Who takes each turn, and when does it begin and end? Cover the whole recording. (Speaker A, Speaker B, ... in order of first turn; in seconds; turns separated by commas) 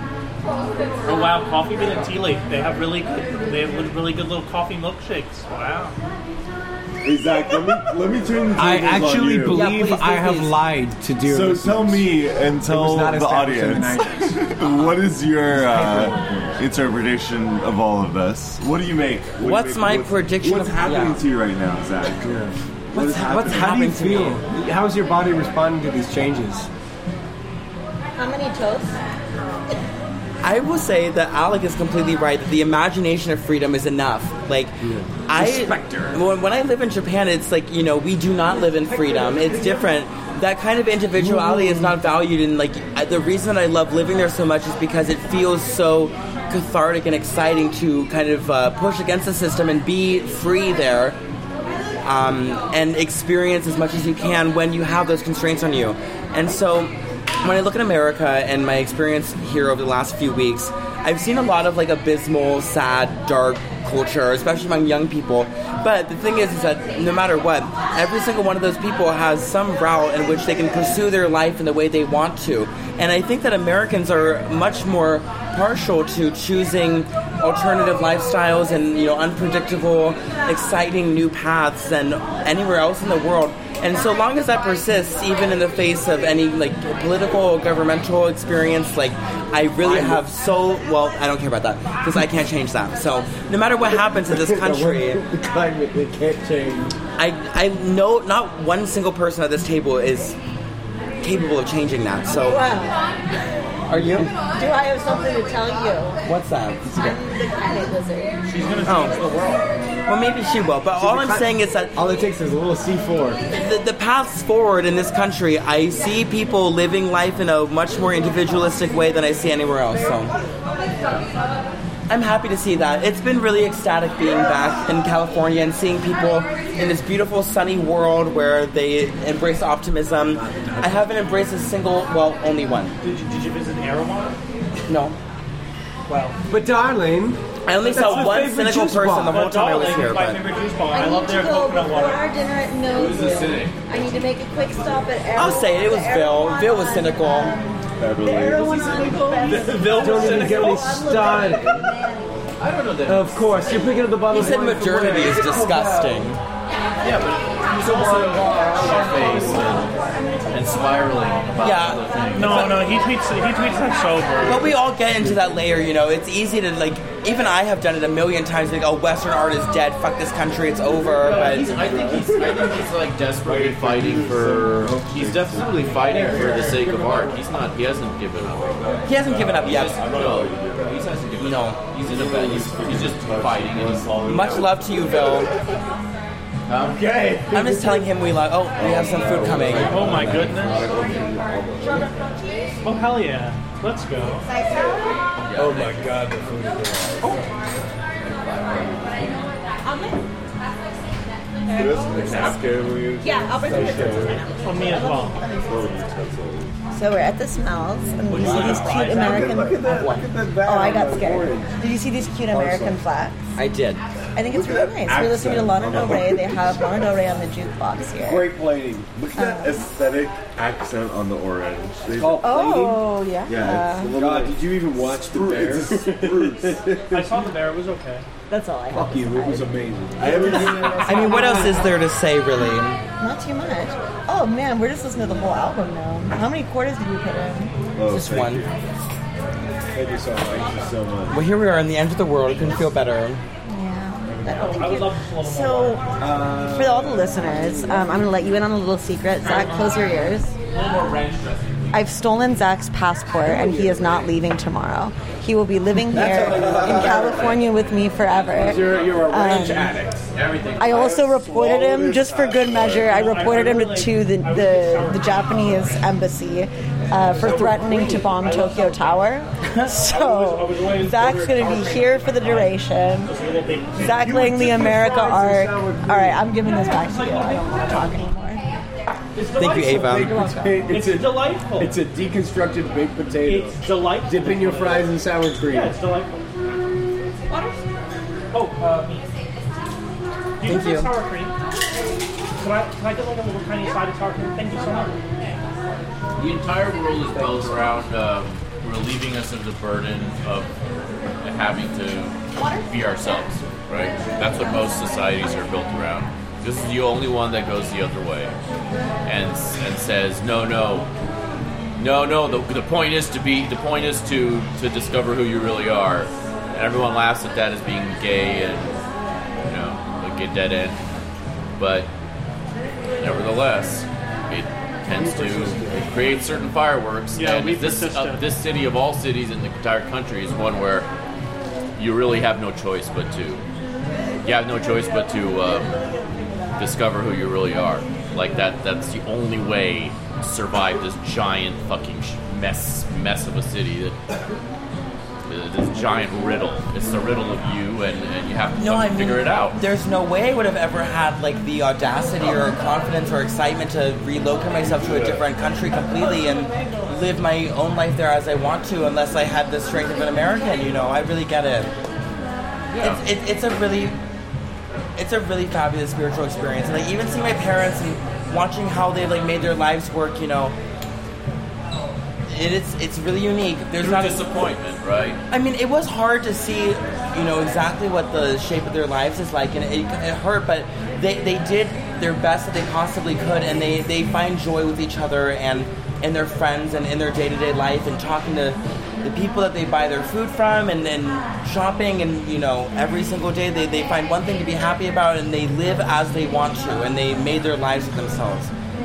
Speaker A: 1.0-5.9, Speaker B: 7.0-9.6, Speaker C: 8.6-12.1, Speaker D: 9.5-10.6, Speaker B: 11.2-22.3, Speaker C: 12.7-14.9, Speaker C: 15.5-16.6, Speaker D: 19.4-21.2, Speaker C: 22.2-22.6, Speaker B: 22.9-23.8, Speaker D: 22.9-24.4, Speaker C: 23.2-26.7, Speaker E: 28.2-29.0, Speaker D: 30.4-51.2, Speaker C: 34.8-36.2, Speaker C: 38.8-39.9, Speaker C: 41.1-42.0, Speaker D: 52.0-95.2, Speaker C: 89.8-90.2, Speaker C: 94.3-97.0, Speaker D: 97.2-100.4, Speaker D: 101.2-102.7, Speaker E: 102.2-103.0, Speaker D: 103.9-104.3, Speaker E: 104.4-106.2, Speaker D: 106.2-107.2, Speaker E: 106.9-108.4, Speaker A: 108.5-109.6, Speaker D: 108.8-109.2, Speaker D: 110.1-111.9, Speaker C: 111.0-113.4, Speaker D: 113.5-120.3, Speaker D: 122.1-133.0, Speaker C: 130.3-131.1, Speaker A: 133.0-134.3, Speaker D: 134.9-135.2, Speaker A: 136.1-136.3, Speaker C: 136.5-139.4, Speaker D: 137.7-140.4, Speaker A: 138.1-138.3, Speaker A: 139.3-142.2, Speaker E: 140.9-152.4, Speaker F: 142.8-143.8, Speaker D: 145.3-147.6, Speaker B: 148.0-148.7, Speaker F: 148.6-150.9, Speaker C: 149.7-151.9, Speaker F: 152.6-153.8, Speaker C: 153.1-156.3, Speaker D: 154.3-156.4, Speaker F: 157.0-159.9, Speaker C: 157.8-159.9, Speaker F: 160.5-162.7, Speaker D: 161.6-162.9, Speaker A: 162.3-164.7, Speaker D: 164.4-171.8, Speaker F: 171.2-184.3, Speaker B: 171.3-176.6, Speaker C: 175.8-177.5, Speaker B: 178.5-181.2, Speaker D: 179.1-180.1, Speaker D: 181.4-181.8, Speaker B: 182.0-185.5, Speaker D: 184.2-185.5, Speaker F: 186.7-187.0, Speaker C: 186.8-188.1, Speaker D: 187.5-190.6, Speaker B: 188.8-192.1, Speaker A: 189.8-190.8, Speaker A: 192.8-194.5, Speaker F: 195.4-196.2, Speaker C: 195.5-197.7, Speaker B: 198.5-199.3, Speaker E: 199.8-200.2, Speaker B: 201.7-204.5, Speaker F: 202.2-202.5, Speaker E: 203.2-206.1, Speaker C: 203.7-204.4, Speaker A: 204.6-205.4, Speaker B: 205.6-206.7, Speaker E: 206.9-213.4, Speaker F: 208.3-209.4, Speaker A: 208.3-209.4, Speaker C: 209.2-211.8, Speaker B: 209.3-209.8, Speaker D: 209.8-210.3, Speaker C: 212.5-213.0, Speaker D: 213.6-214.0, Speaker E: 214.3-218.4, Speaker B: 214.5-216.8, Speaker C: 218.2-219.1, Speaker B: 219.1-222.5, Speaker E: 219.3-219.8, Speaker C: 222.1-223.0, Speaker E: 222.4-224.1, Speaker B: 223.5-226.8, Speaker C: 224.1-227.4, Speaker A: 227.1-228.2, Speaker E: 228.5-231.8, Speaker C: 228.9-231.6, Speaker B: 230.2-231.1, Speaker D: 231.0-233.0, Speaker E: 233.2-237.8, Speaker B: 237.9-238.8, Speaker D: 238.0-238.6, Speaker C: 239.9-240.9, Speaker B: 240.5-241.4, Speaker D: 241.3-243.4, Speaker E: 243.6-250.6, Speaker A: 244.5-246.1, Speaker B: 246.2-247.1, Speaker C: 246.2-248.2, Speaker F: 249.4-250.0, Speaker F: 250.7-252.1, Speaker E: 251.9-259.9, Speaker C: 253.4-254.3, Speaker C: 256.1-257.5, Speaker F: 257.3-257.6, Speaker F: 258.2-259.2, Speaker C: 258.5-260.2, Speaker F: 260.3-261.2, Speaker E: 260.8-273.3, Speaker C: 261.5-261.8, Speaker B: 262.0-263.1, Speaker A: 263.0-266.1, Speaker C: 267.3-268.3, Speaker A: 268.2-269.3, Speaker A: 269.9-274.2, Speaker E: 273.9-278.6, Speaker C: 274.0-276.4, Speaker A: 276.6-278.2, Speaker A: 279.4-282.0, Speaker D: 279.6-280.3, Speaker C: 279.7-285.9, Speaker E: 280.0-280.9, Speaker A: 283.4-286.4, Speaker A: 288.5-289.3, Speaker A: 290.6-291.5, Speaker D: 290.6-291.1, Speaker A: 292.6-295.2, Speaker F: 296.4-300.7, Speaker C: 297.3-297.9, Speaker F: 301.4-308.5, Speaker E: 302.6-303.3, Speaker E: 304.2-304.8, Speaker F: 309.2-311.1, Speaker F: 312.0-319.0, Speaker F: 319.6-321.0, Speaker F: 321.8-322.1, Speaker F: 323.2-331.1, Speaker C: 325.1-326.4, Speaker A: 327.3-328.5, Speaker F: 332.0-333.6, Speaker F: 334.4-336.0, Speaker F: 336.8-344.2, Speaker F: 345.4-349.8, Speaker D: 348.8-361.9, Speaker B: 354.9-355.4, Speaker F: 362.9-363.2, Speaker D: 363.0-364.2, Speaker D: 365.1-370.7, Speaker D: 372.5-374.5, Speaker F: 374.0-375.4, Speaker D: 375.5-398.7